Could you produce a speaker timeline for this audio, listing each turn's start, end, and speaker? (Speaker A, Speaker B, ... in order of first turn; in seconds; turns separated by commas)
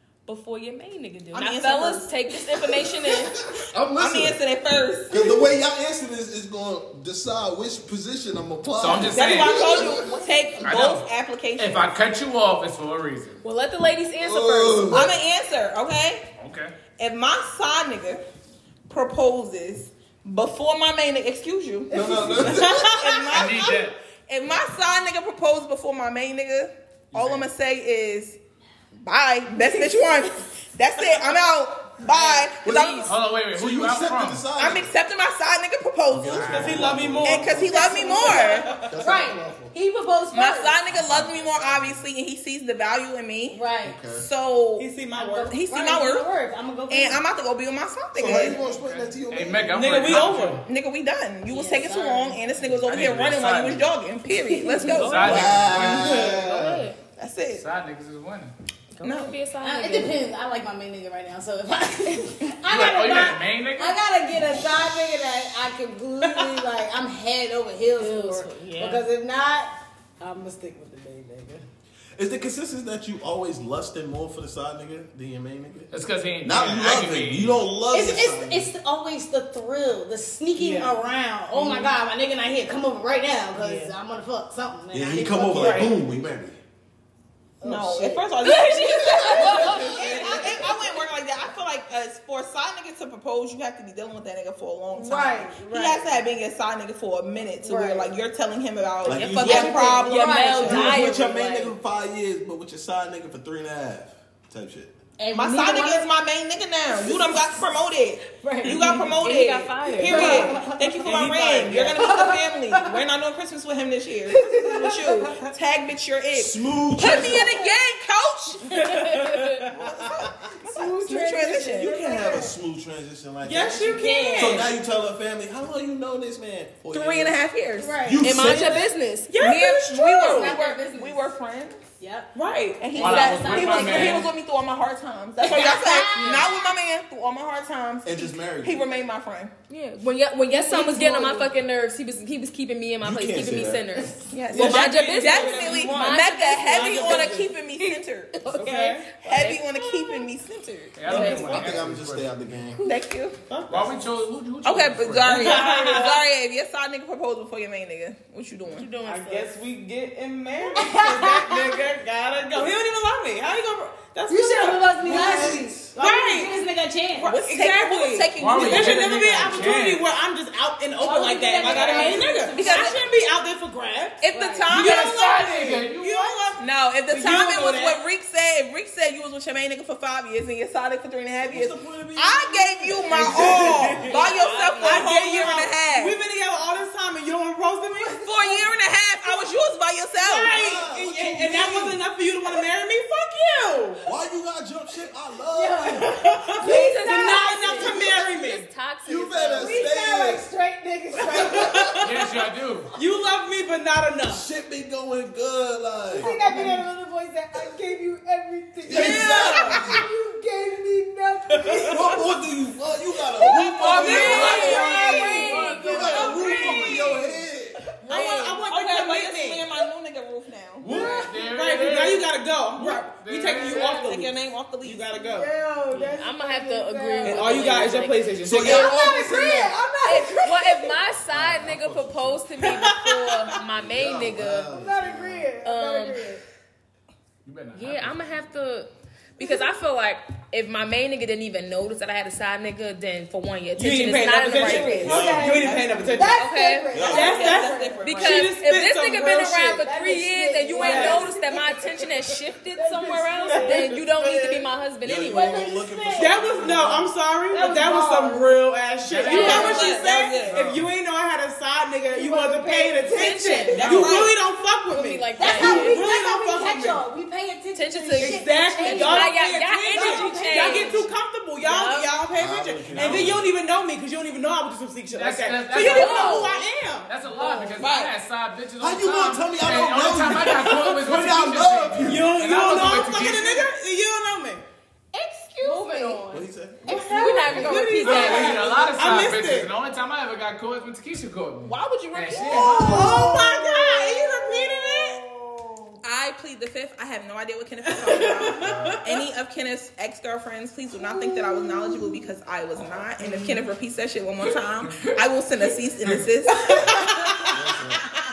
Speaker A: 0.3-3.4, Speaker B: 1.3-2.1, Speaker B: 2.6-2.9, Speaker C: 3.5-4.4, Speaker B: 4.0-5.5, Speaker C: 5.1-10.8, Speaker D: 8.8-9.9, Speaker B: 9.1-11.9, Speaker D: 10.6-13.4, Speaker A: 13.4-15.1, Speaker C: 14.2-15.2, Speaker B: 14.9-16.3, Speaker D: 16.4-16.7, Speaker B: 17.0-18.2, Speaker B: 18.9-28.4, Speaker E: 21.9-22.8, Speaker C: 21.9-22.9, Speaker F: 22.6-23.6, Speaker D: 23.3-23.9, Speaker D: 27.1-27.5, Speaker B: 29.0-33.1, Speaker E: 29.6-29.9, Speaker A: 32.1-33.1, Speaker C: 32.7-34.9, Speaker D: 33.0-34.5, Speaker B: 34.6-38.7, Speaker C: 36.1-39.7, Speaker D: 36.3-37.0, Speaker F: 36.4-39.0, Speaker E: 37.7-40.8, Speaker B: 40.3-44.9, Speaker C: 40.9-42.0, Speaker E: 43.5-44.0, Speaker C: 43.8-44.2, Speaker F: 44.8-45.6, Speaker E: 45.1-47.2, Speaker B: 45.5-46.3, Speaker B: 46.9-48.6, Speaker C: 48.2-50.3, Speaker D: 48.5-50.6, Speaker F: 49.7-50.6, Speaker B: 50.5-56.1, Speaker A: 51.5-51.8, Speaker E: 51.7-52.4, Speaker D: 52.8-53.9, Speaker E: 54.4-55.2, Speaker A: 54.9-57.0, Speaker D: 54.9-56.2, Speaker C: 55.2-56.8, Speaker B: 57.2-57.6, Speaker D: 57.5-58.5, Speaker A: 59.0-60.2, Speaker B: 59.0-59.4, Speaker E: 59.6-71.6, Speaker D: 62.7-64.0, Speaker F: 66.2-66.5, Speaker A: 68.0-69.0, Speaker C: 72.2-75.9, Speaker D: 75.9-77.5, Speaker C: 76.4-78.7, Speaker E: 77.9-85.9, Speaker F: 80.5-81.0, Speaker F: 81.6-81.9, Speaker A: 83.6-83.9, Speaker C: 84.9-86.6, Speaker F: 85.5-86.0, Speaker E: 87.6-88.3, Speaker B: 87.6-101.0, Speaker A: 88.4-90.5, Speaker C: 88.8-90.8, Speaker E: 89.5-90.7, Speaker E: 95.0-96.1, Speaker E: 97.6-98.1, Speaker C: 99.0-99.9, Speaker A: 99.1-101.7, Speaker E: 99.6-101.0, Speaker C: 100.6-104.9, Speaker E: 105.2-106.1, Speaker B: 105.3-118.9, Speaker E: 106.9-107.6, Speaker E: 108.2-109.2, Speaker A: 109.0-110.5, Speaker E: 109.8-111.3, Speaker F: 111.0-112.0, Speaker E: 112.0-113.0, Speaker E: 114.3-115.5, Speaker C: 116.3-117.5, Speaker E: 117.2-117.7, Speaker A: 118.8-119.6, Speaker F: 118.9-119.5, Speaker C: 119.7-120.4, Speaker B: 119.8-121.9, Speaker E: 120.7-122.5, Speaker C: 121.8-127.4, Speaker F: 123.4-124.7, Speaker E: 123.8-124.7, Speaker B: 126.9-128.0, Speaker E: 127.8-128.9, Speaker C: 128.0-128.9, Speaker A: 128.2-131.2, Speaker F: 129.3-130.5, Speaker B: 129.4-131.8, Speaker E: 130.3-130.6, Speaker E: 132.0-132.3, Speaker B: 132.3-139.5, Speaker E: 132.9-134.3, Speaker D: 132.9-134.3, Speaker E: 135.4-136.6, Speaker C: 138.0-138.9, Speaker A: 139.7-150.2, Speaker E: 140.5-141.5, Speaker B: 140.7-141.0, Speaker C: 143.0-144.0, Speaker B: 144.3-148.4, Speaker F: 144.5-147.5, Speaker F: 148.5-149.2, Speaker B: 149.2-151.3, Speaker D: 150.9-152.5, Speaker F: 151.0-151.8, Speaker C: 151.4-152.8, Speaker B: 152.8-153.4, Speaker F: 153.4-154.0, Speaker D: 153.7-155.6, Speaker B: 154.6-158.9, Speaker F: 155.3-156.2, Speaker E: 155.6-156.0, Speaker A: 158.8-159.5, Speaker F: 159.0-165.6, Speaker E: 160.7-161.8, Speaker E: 164.2-167.4, Speaker C: 165.0-165.9, Speaker B: 166.0-166.5, Speaker F: 167.2-178.0, Speaker B: 167.2-169.4, Speaker D: 168.4-170.1, Speaker E: 171.0-173.0, Speaker B: 171.6-173.0, Speaker A: 171.7-172.1, Speaker B: 174.2-175.2, Speaker E: 174.3-174.7, Speaker D: 174.7-176.4, Speaker B: 176.6-186.2, Speaker C: 181.4-184.1, Speaker F: 183.1-184.2, Speaker A: 184.0-185.5, Speaker F: 184.8-188.2, Speaker E: 188.0-188.7, Speaker B: 188.2-190.6, Speaker F: 190.2-194.1, Speaker C: 190.5-192.0, Speaker C: 194.1-196.2, Speaker E: 195.5-198.0, Speaker F: 196.0-198.6, Speaker A: 196.6-199.9, Speaker C: 199.0-200.5, Speaker E: 199.6-202.3, Speaker F: 201.3-202.1, Speaker D: 202.0-202.9, Speaker F: 202.9-204.4, Speaker C: 204.3-206.4, Speaker E: 206.1-212.2, Speaker C: 208.8-210.0, Speaker B: 208.9-209.7, Speaker F: 211.5-212.1, Speaker C: 211.8-217.8, Speaker E: 213.2-217.2, Speaker D: 213.6-217.1, Speaker A: 213.9-216.2, Speaker B: 213.9-215.3, Speaker B: 216.2-216.9, Speaker A: 218.1-218.6, Speaker F: 218.1-219.7, Speaker B: 218.1-220.9, Speaker D: 220.8-224.0, Speaker E: 220.8-221.3, Speaker F: 221.4-225.5, Speaker B: 223.7-225.1, Speaker E: 225.2-227.8, Speaker A: 226.2-229.1, Speaker F: 227.2-229.0, Speaker C: 228.4-229.8, Speaker E: 228.6-231.0, Speaker A: 230.1-234.8, Speaker C: 231.3-232.5, Speaker F: 232.6-233.5, Speaker C: 233.7-235.5, Speaker E: 234.7-236.4, Speaker A: 235.6-236.3, Speaker D: 237.4-238.4, Speaker A: 237.8-245.1, Speaker F: 243.8-246.4, Speaker B: 244.5-245.1, Speaker E: 244.9-248.1, Speaker C: 245.0-245.7, Speaker B: 245.7-246.3, Speaker A: 246.3-246.9, Speaker C: 246.9-247.3, Speaker B: 246.9-248.5, Speaker F: 247.0-249.8, Speaker A: 248.0-255.7, Speaker E: 249.4-252.1, Speaker F: 250.8-251.3, Speaker E: 252.8-254.5, Speaker F: 253.5-254.4, Speaker C: 255.0-257.1, Speaker E: 255.2-256.8, Speaker F: 256.1-267.0, Speaker E: 257.5-258.5, Speaker D: 259.1-260.9, Speaker A: 259.3-259.8, Speaker B: 259.3-260.7, Speaker E: 259.3-260.4, Speaker E: 262.1-264.2, Speaker A: 263.1-264.2, Speaker B: 263.8-264.4, Speaker A: 264.9-266.0, Speaker E: 265.3-271.1, Speaker A: 267.7-271.0, Speaker F: 268.2-277.1, Speaker A: 271.6-272.1, Speaker C: 272.4-273.5, Speaker D: 272.9-273.3, Speaker D: 275.1-276.5, Speaker A: 275.8-276.6, Speaker E: 275.9-276.6, Speaker D: 277.1-283.7, Speaker E: 277.3-277.9, Speaker B: 277.8-278.1, Speaker C: 278.8-282.3, Speaker F: 282.0-284.6, Speaker A: 285.1-288.6, Speaker E: 285.6-289.0, Speaker C: 286.3-286.9, Speaker F: 287.5-289.7, Speaker D: 288.0-293.2, Speaker A: 291.7-292.9, Speaker B: 291.8-293.5, Speaker E: 292.4-296.0, Speaker F: 292.9-295.2, Speaker B: 296.0-307.5, Speaker F: 297.9-299.0, Speaker C: 298.6-299.0, Speaker E: 301.0-302.2, Speaker D: 304.8-305.1, Speaker D: 306.0-306.3, Speaker F: 306.7-307.6, Speaker C: 307.5-308.0